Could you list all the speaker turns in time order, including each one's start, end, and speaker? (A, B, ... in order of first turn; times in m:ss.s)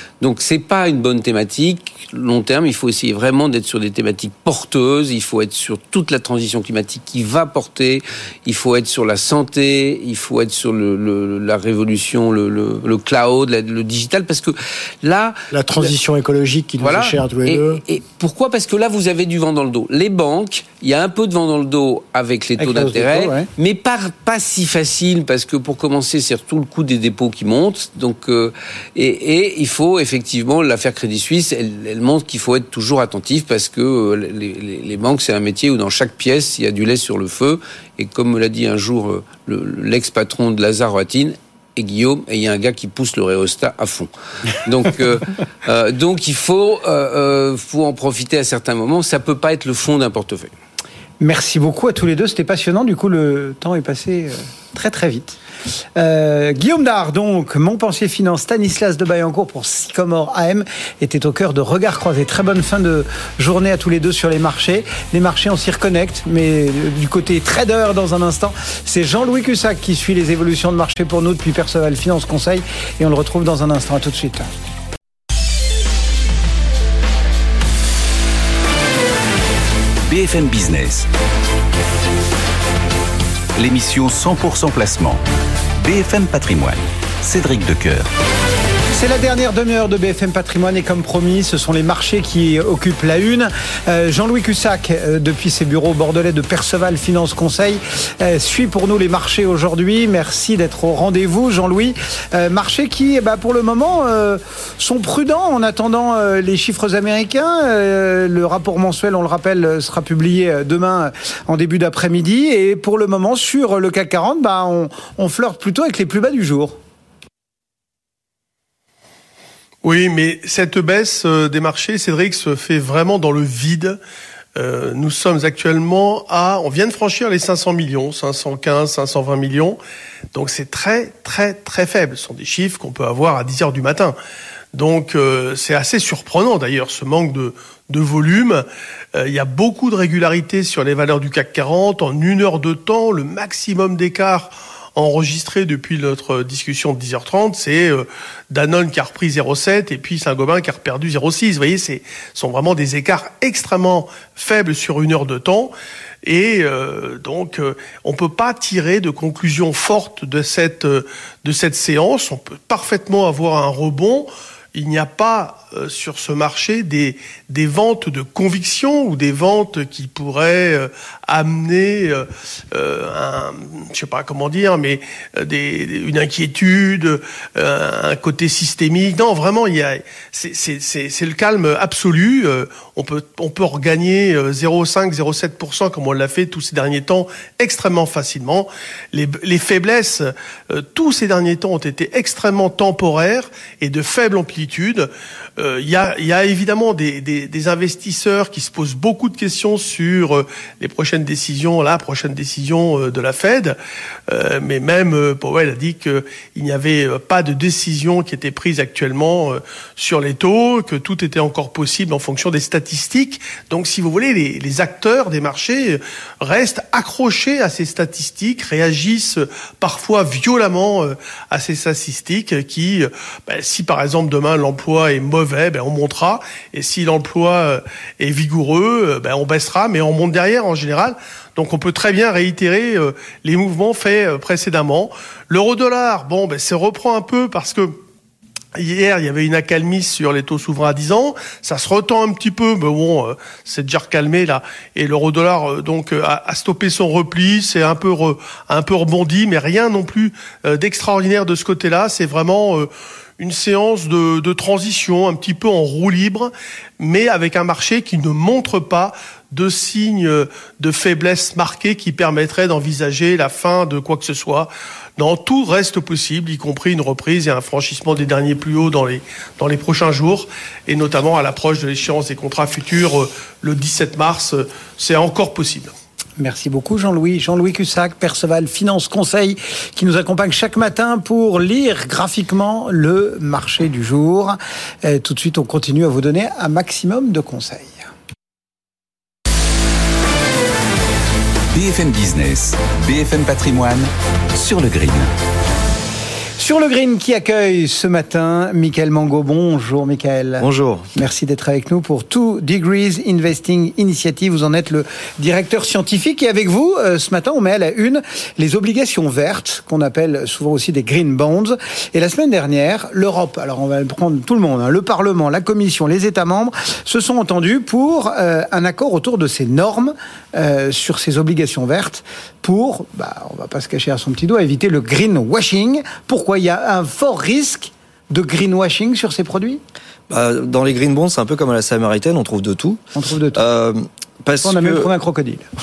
0:00.2-0:15.4 A
0:15.5-0:17.8 B
0:16.8-0:44.1 A
0:22.6-0:23.5 C
0:44.6-0:50.5 A
0:51.2-0:55.4 C
0:56.0-1:14.5 C
1:20.1-1:21.1 D
1:23.6-1:25.2 D
1:25.8-1:28.1 D
1:28.9-1:56.8 C
1:59.8-2:04.0 E
2:04.6-2:09.8 E
2:10.3-2:14.2 E
2:14.7-2:18.6 E
2:19.2-2:35.7 E
2:36.2-3:23.8 E
3:24.3-3:58.0 E
3:58.8-4:35.9 E
4:36.4-4:48.0 C
4:51.7-4:55.3 D
4:56.6-5:29.8 C
5:00.6-5:01.1 F
5:30.3-5:33.0 F
5:33.1-5:33.6 C
5:33.5-5:35.1 F
5:34.6-5:35.6 C